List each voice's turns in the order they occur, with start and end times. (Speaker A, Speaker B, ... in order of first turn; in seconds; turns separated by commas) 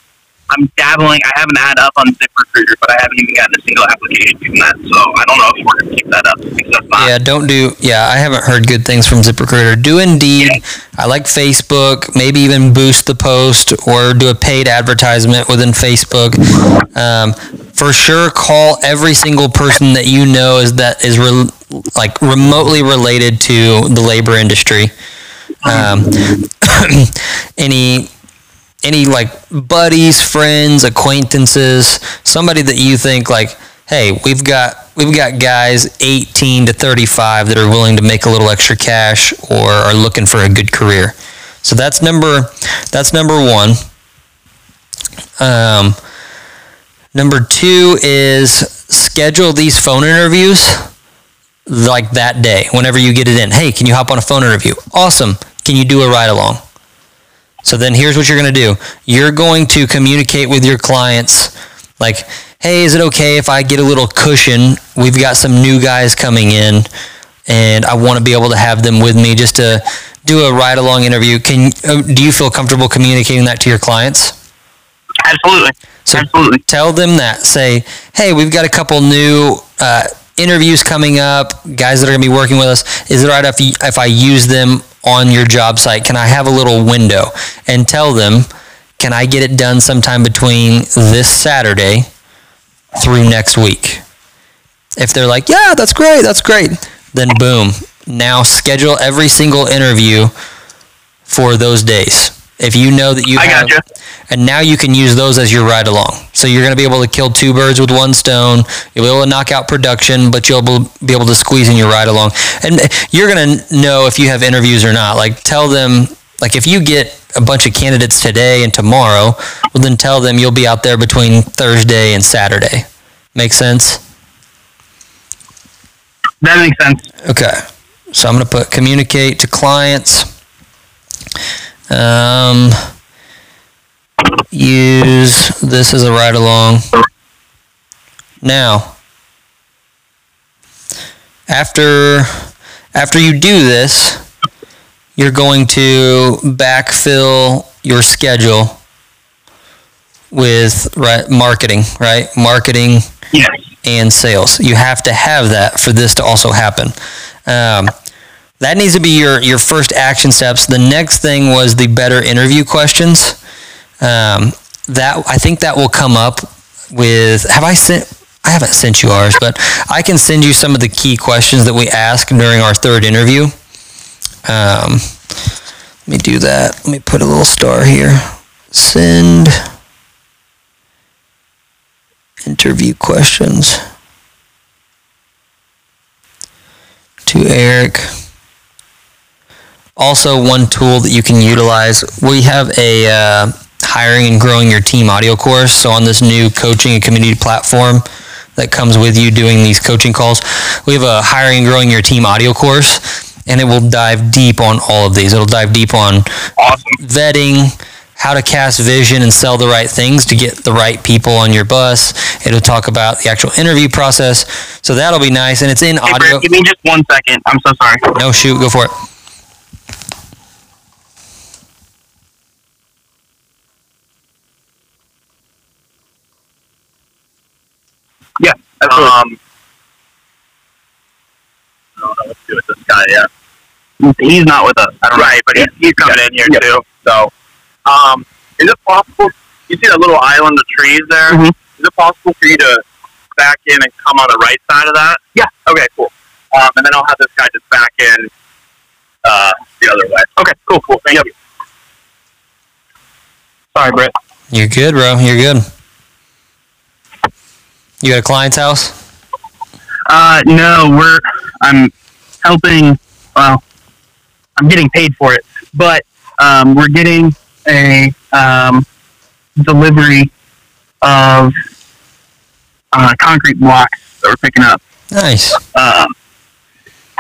Speaker A: 0.5-7.1, Speaker B: 7.0-16.4, Speaker B: 16.9-24.9, Speaker B: 25.6-28.1, Speaker B: 28.8-43.8, Speaker B: 45.4-46.0, Speaker B: 47.1-50.9, Speaker B: 51.7-56.6, Speaker B: 57.6-66.9, Speaker B: 67.5-74.4, Speaker A: 75.2-76.6, Speaker B: 76.1-88.5, Speaker B: 89.0-92.1, Speaker B: 93.0-94.0, Speaker B: 95.0-100.3, Speaker B: 101.3-103.7, Speaker A: 103.4-103.8, Speaker B: 104.3-124.0, Speaker A: 126.4-127.1, Speaker B: 127.3-130.3, Speaker B: 131.9-132.8, Speaker B: 134.5-136.8, Speaker B: 138.4-138.9, Speaker B: 141.5-144.2, Speaker B: 145.2-148.8, Speaker B: 150.3-153.1, Speaker A: 153.3-153.6, Speaker B: 153.8-156.9, Speaker B: 157.5-157.9, Speaker B: 158.6-163.4, Speaker B: 164.0-173.5, Speaker B: 174.5-175.1, Speaker B: 176.1-179.6, Speaker B: 182.4-183.8, Speaker B: 187.3-188.1, Speaker B: 190.0-198.0, Speaker B: 198.6-206.3, Speaker A: 206.6-207.0, Speaker B: 207.0-216.4, Speaker A: 216.1-218.1, Speaker B: 218.2-218.9, Speaker A: 228.4-229.1, Speaker C: 228.9-229.4, Speaker C: 232.0-233.3, Speaker A: 234.0-236.6, Speaker C: 235.1-237.3, Speaker C: 237.9-242.8, Speaker A: 241.3-241.6, Speaker C: 243.4-248.3, Speaker C: 249.2-250.3, Speaker A: 250.4-251.3, Speaker A: 253.8-254.1, Speaker B: 254.5-255.7, Speaker B: 258.0-259.0, Speaker A: 260.1-263.6, Speaker A: 264.6-268.9, Speaker A: 269.6-270.3, Speaker A: 271.0-271.6, Speaker A: 272.9-274.8, Speaker B: 275.1-275.6, Speaker A: 275.7-276.1